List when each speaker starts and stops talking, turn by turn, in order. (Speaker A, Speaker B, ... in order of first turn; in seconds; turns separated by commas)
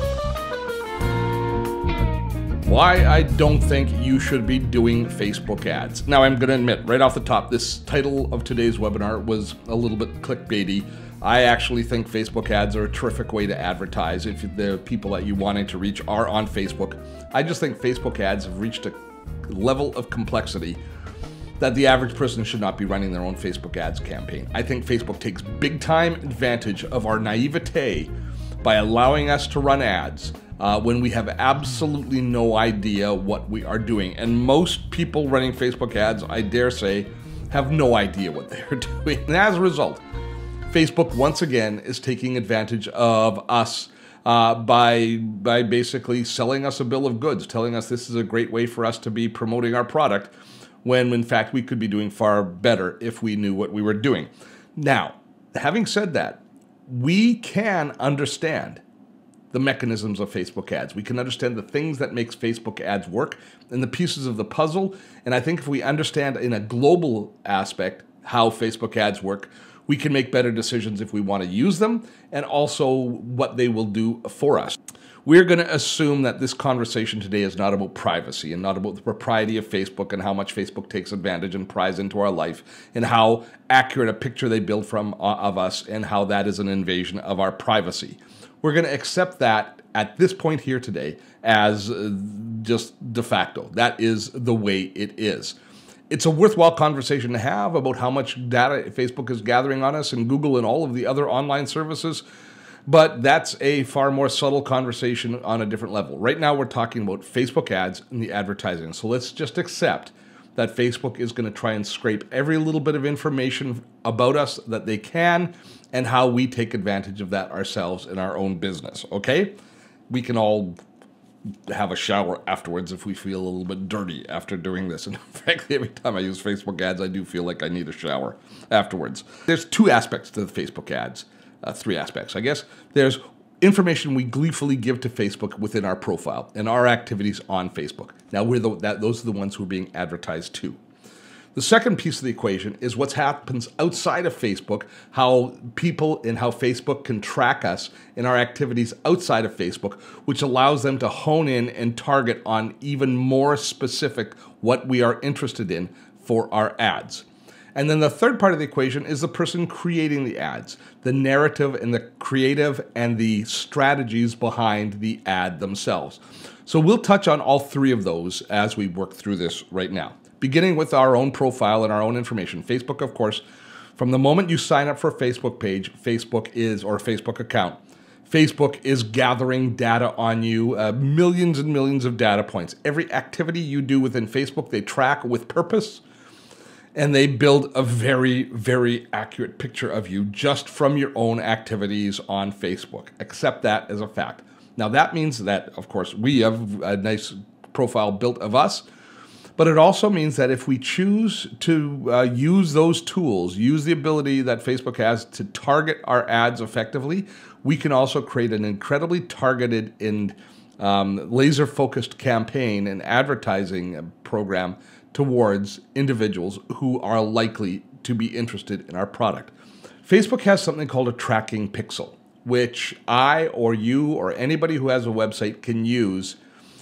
Speaker A: 2.6-20.8, Speaker A: 21.6-28.1, Speaker A: 28.6-40.0, Speaker A: 40.7-50.3, Speaker A: 50.8-58.8, Speaker A: 59.5-95.6, Speaker A: 96.1-102.2, Speaker A: 102.9-119.5, Speaker A: 120.1-120.8, Speaker A: 121.7-140.8, Speaker A: 141.5-173.4, Speaker A: 173.9-186.0, Speaker A: 186.9-198.8, Speaker A: 199.6-226.4